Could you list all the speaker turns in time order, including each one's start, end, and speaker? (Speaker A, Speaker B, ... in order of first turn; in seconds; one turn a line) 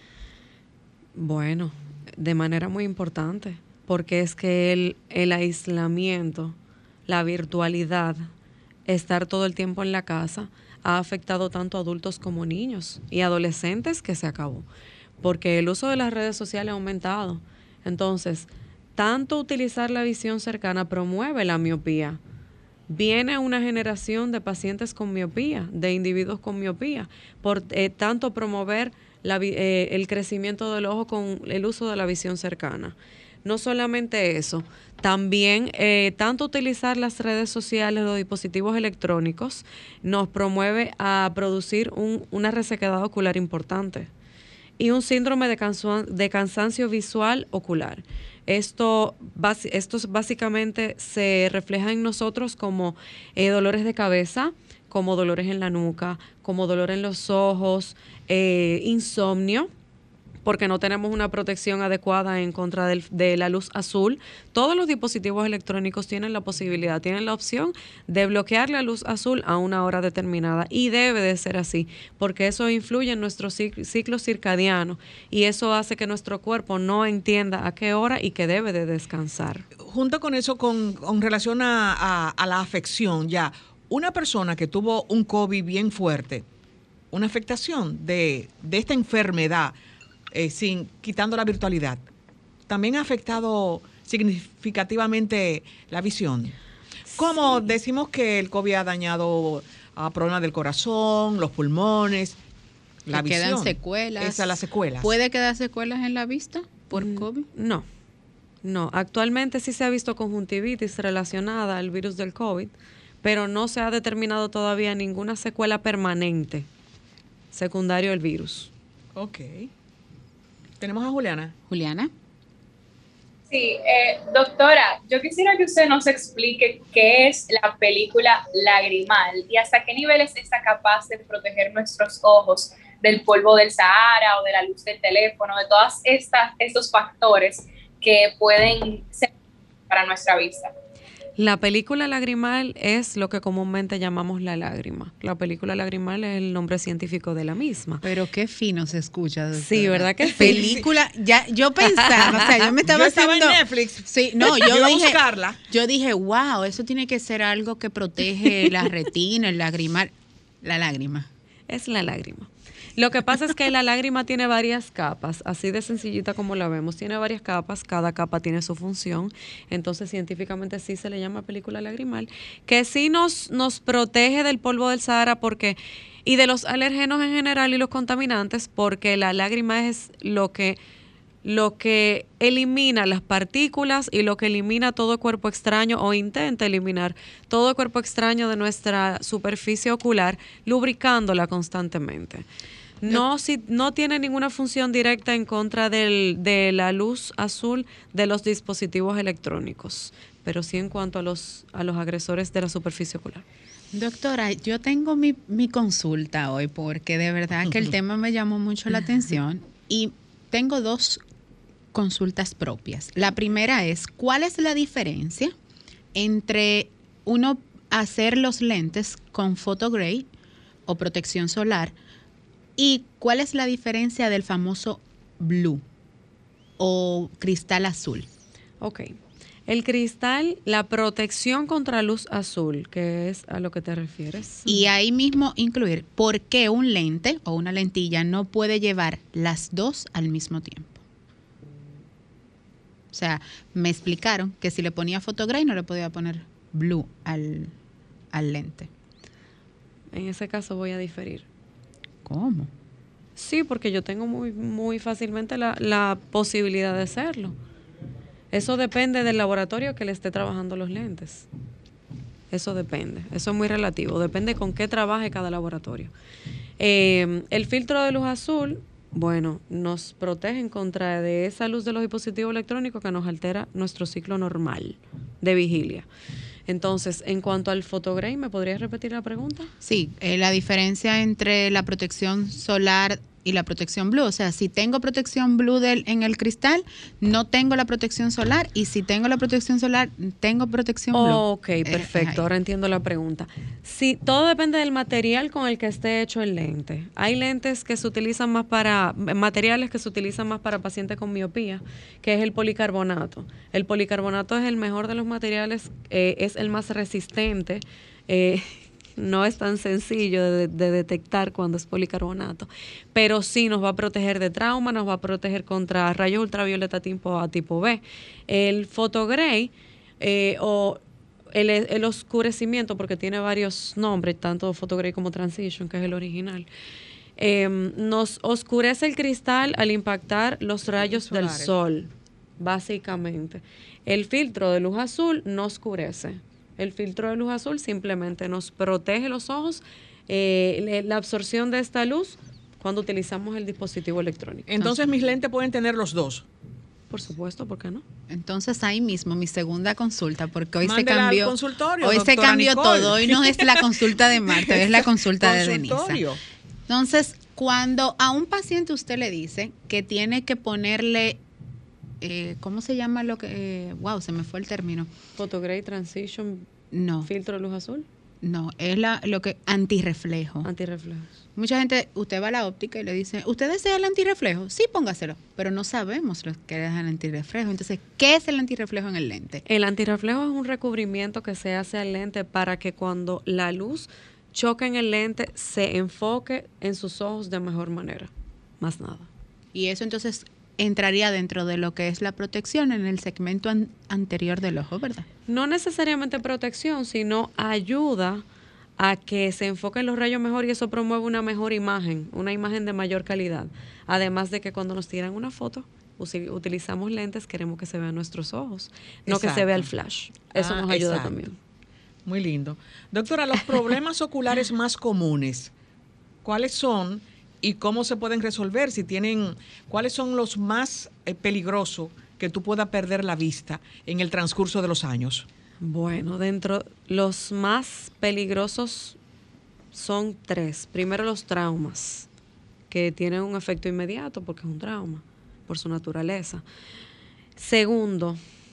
Speaker A: 1.1-6.6
Speaker A: 7.1-8.3
Speaker A: 8.9-14.7
Speaker A: 15.2-22.2
Speaker A: 22.9-44.1
Speaker A: 44.8-59.7
Speaker A: 60.4-79.6
Speaker B: 79.8-86.5
Speaker B: 87.1-89.7
Speaker B: 90.3-92.1
Speaker B: 92.7-96.6
Speaker A: 97.1-97.6
Speaker B: 97.1-102.4
Speaker B: 103.1-105.1
Speaker C: 103.1-107.5
Speaker A: 106.9-107.8
Speaker A: 108.6-116.7
Speaker A: 117.5-118.7
Speaker B: 119.1-119.7
Speaker B: 120.8-121.5
Speaker C: 121.7-122.1
Speaker D: 123.5-139.3
Speaker D: 139.9-140.7
Speaker A: 141.4-148.0
Speaker C: 148.0-161.3
Speaker A: 149.6-150.7
Speaker B: 150.4-150.8
Speaker A: 151.9-152.7
Speaker B: 152.8-155.6
Speaker A: 161.7-180.8
Speaker A: 181.4-192.4
Speaker A: 193.0-203.4
Speaker C: 203.9-211.2
Speaker C: 211.9-215.5
Speaker C: 216.1-220.3
Speaker C: 220.9-221.9
Speaker C: 222.8-225.8
Speaker C: 226.8-228.3
Speaker A: 228.8-234.8
Speaker C: 234.7-241.0
Speaker C: 243.1-247.7
Speaker C: 248.3-248.9
Speaker A: 250.1-251.5
Speaker C: 252.2-252.7
Speaker A: 253.4-257.6
Speaker A: 258.5-261.5
Speaker A: 262.5-266.1
Speaker A: 266.8-276.1
Speaker A: 276.7-279.7
Speaker C: 279.8-292.4
Speaker A: 291.1-321.0
Speaker A: 321.5-326.7
Speaker A: 327.4-344.7
Speaker B: 331.0-331.7
Speaker B: 344.7-346.5
Speaker A: 347.1-348.0
Speaker C: 348.3-356.2
Speaker B: 350.8-353.9
Speaker B: 354.5-356.4
Speaker C: 356.9-361.4
Speaker C: 362.2-365.1
Speaker A: 365.4-366.7
Speaker C: 366.9-367.3
Speaker A: 367.2-368.1
Speaker C: 368.4-370.7
Speaker A: 370.6-371.3
Speaker C: 371.6-379.6
Speaker A: 379.6-388.3
Speaker A: 388.8-389.3
Speaker C: 389.7-395.3
Speaker A: 395.5-398.4
Speaker A: 399.0-411.6
Speaker B: 409.3-409.9
Speaker B: 410.5-411.3
Speaker B: 412.2-415.7
Speaker B: 416.4-425.5
Speaker A: 425.8-429.2
Speaker A: 429.9-432.3
Speaker A: 432.9-436.6
Speaker A: 437.6-438.4